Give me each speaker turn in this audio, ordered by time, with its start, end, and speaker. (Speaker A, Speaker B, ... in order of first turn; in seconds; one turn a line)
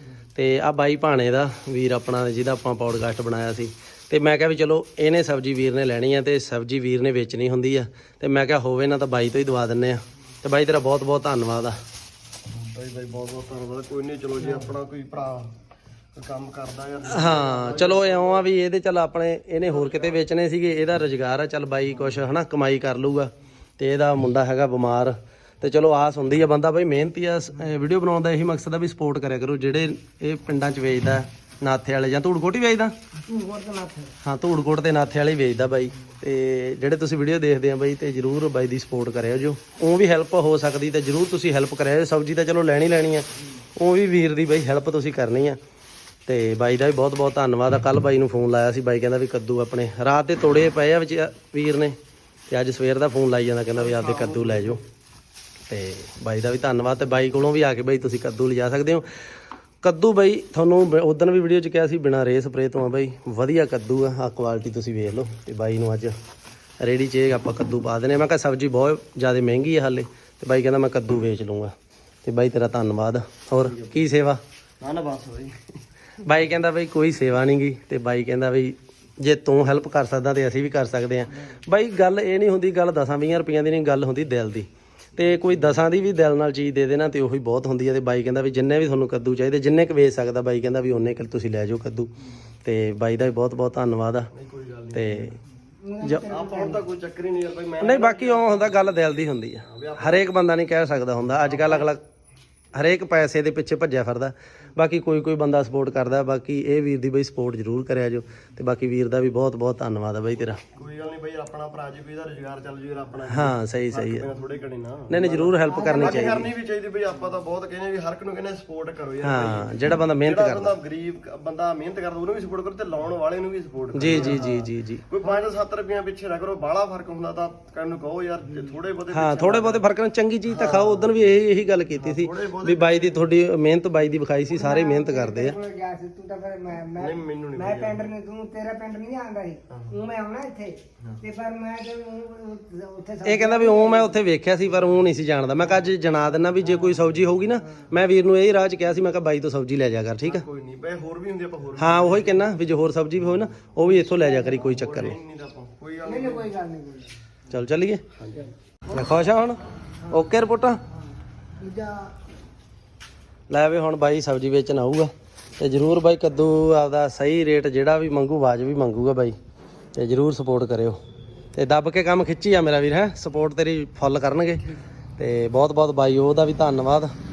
Speaker A: 0.3-11.8
Speaker B: 12.5-15.5
Speaker B: 16.1-18.5
Speaker A: 17.1-32.9
Speaker B: 19.7-20.2
Speaker C: 33.2-34.1
Speaker A: 34.2-45.6
Speaker A: 46.3-52.0
Speaker A: 52.5-54.8
Speaker B: 53.8-54.8
Speaker A: 55.7-59.0
Speaker A: 59.8-66.2
Speaker A: 66.8-74.4
Speaker B: 73.6-74.0
Speaker B: 74.8-75.8
Speaker A: 76.2-92.1
Speaker A: 92.6-94.3
Speaker B: 94.3-95.3
Speaker A: 94.9-95.4
Speaker C: 95.8-96.8
Speaker A: 96.0-96.3
Speaker B: 96.2-98.9
Speaker A: 97.8-102.0
Speaker B: 99.6-100.4
Speaker B: 101.5-101.8
Speaker A: 102.7-110.6
Speaker B: 110.7-119.7
Speaker A: 113.3-114.2
Speaker A: 115.1-116.5
Speaker C: 115.7-116.4
Speaker A: 119.2-120.8
Speaker B: 120.2-129.8
Speaker A: 123.9-125.0
Speaker A: 129.1-135.6
Speaker B: 130.5-131.1
Speaker B: 131.9-133.3
Speaker C: 134.5-144.2
Speaker B: 137.0-138.1
Speaker B: 139.7-140.0
Speaker A: 143.2-150.5
Speaker B: 150.2-152.4
Speaker A: 151.8-155.2
Speaker C: 154.1-154.6
Speaker B: 154.6-156.5
Speaker C: 156.0-157.2
Speaker A: 157.5-158.0
Speaker B: 158.2-158.5
Speaker A: 158.9-160.8
Speaker C: 161.6-162.1
Speaker A: 163.5-169.4
Speaker A: 169.9-171.0
Speaker A: 171.6-177.1